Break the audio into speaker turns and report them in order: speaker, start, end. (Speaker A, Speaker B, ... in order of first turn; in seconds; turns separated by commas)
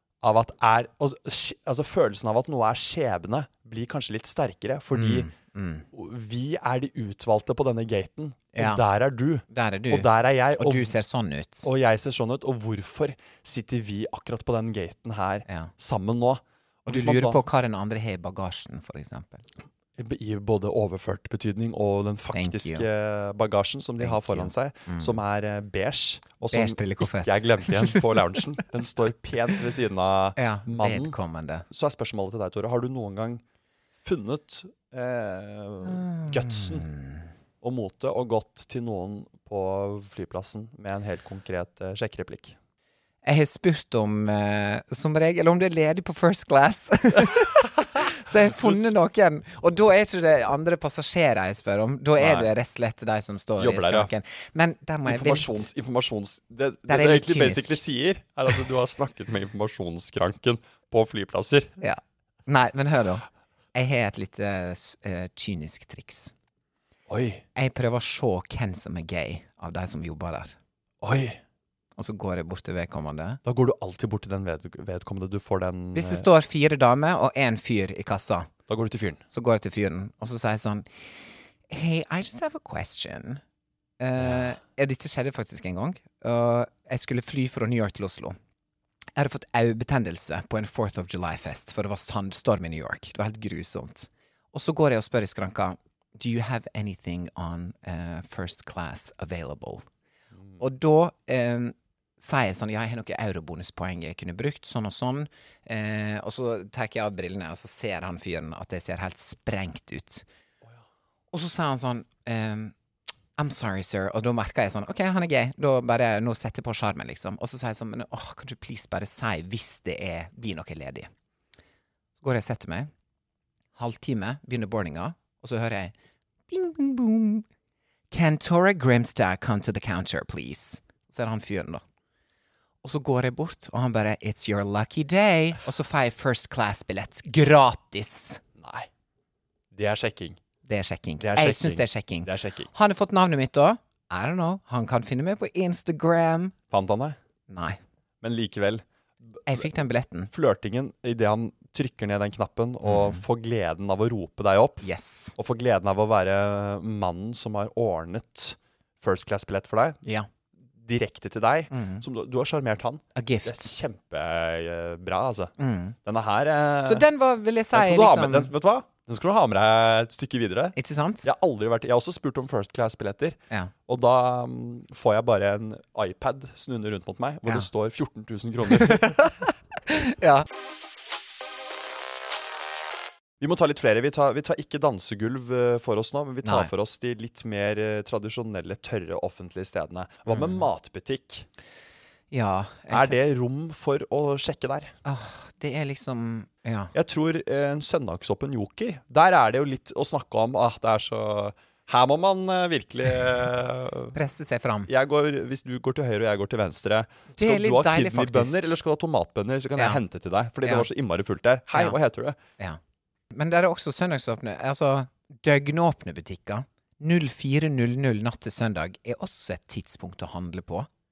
Speaker A: 0.2-5.3, Speaker B: 4.9-5.9, Speaker A: 5.9-10.9, Speaker B: 8.6-8.8, Speaker B: 9.5-11.7, Speaker A: 11.6-17.4, Speaker B: 15.5-15.7, Speaker B: 16.9-19.4, Speaker A: 20.0-31.2, Speaker B: 22.3-22.9, Speaker B: 24.0-25.2, Speaker B: 26.5-28.1, Speaker B: 30.4-31.7, Speaker A: 31.7-33.4, Speaker A: 34.0-36.9, Speaker B: 35.9-37.2, Speaker A: 37.6-42.6, Speaker B: 43.2-55.7, Speaker A: 48.5-48.9, Speaker A: 52.2-52.5, Speaker A: 53.6-54.1, Speaker A: 55.1-61.7, Speaker B: 56.9-57.8, Speaker B: 61.8-66.3, Speaker A: 67.1-67.4, Speaker B: 67.5-70.6, Speaker A: 71.0-71.4, Speaker B: 72.0-73.4, Speaker A: 73.5-76.3, Speaker B: 76.0-78.5, Speaker A: 78.7-79.2, Speaker B: 79.3-80.9, Speaker B: 81.7-83.4, Speaker B: 84.0-88.4, Speaker B: 89.2-99.8, Speaker B: 100.6-110.2, Speaker B: 111.3-112.7, Speaker B: 113.4-121.1, Speaker B: 122.2-122.9, Speaker B: 123.8-125.9, Speaker B: 126.5-127.5, Speaker B: 128.1-131.8, Speaker B: 132.8-138.4, Speaker A: 138.6-138.9, Speaker A: 139.7-140.4, Speaker B: 140.7-146.6, Speaker A: 141.2-142.7, Speaker A: 146.7-147.2, Speaker B: 147.5-147.8, Speaker A: 148.2-149.6, Speaker B: 149.5-150.3, Speaker A: 150.3-160.0, Speaker B: 152.8-153.2, Speaker B: 154.8-155.3, Speaker A: 160.8-165.5, Speaker B: 161.7-162.0, Speaker B: 163.2-163.7, Speaker B: 165.6-166.0, Speaker A: 166.1-167.1, Speaker B: 166.8-168.5, Speaker A: 167.7-179.2, Speaker B: 170.8-171.3, Speaker B: 178.8-180.5, Speaker A: 183.4-191.5, Speaker B: 186.4-186.7, Speaker B: 190.3-190.7, Speaker B: 192.3-193.2, Speaker A: 192.9-194.9, Speaker B: 195.1-196.9, Speaker A: 196.9-204.2, Speaker B: 204.1-204.9, Speaker A: 204.9-212.4, Speaker B: 207.4-208.7, Speaker B: 213.3-220.9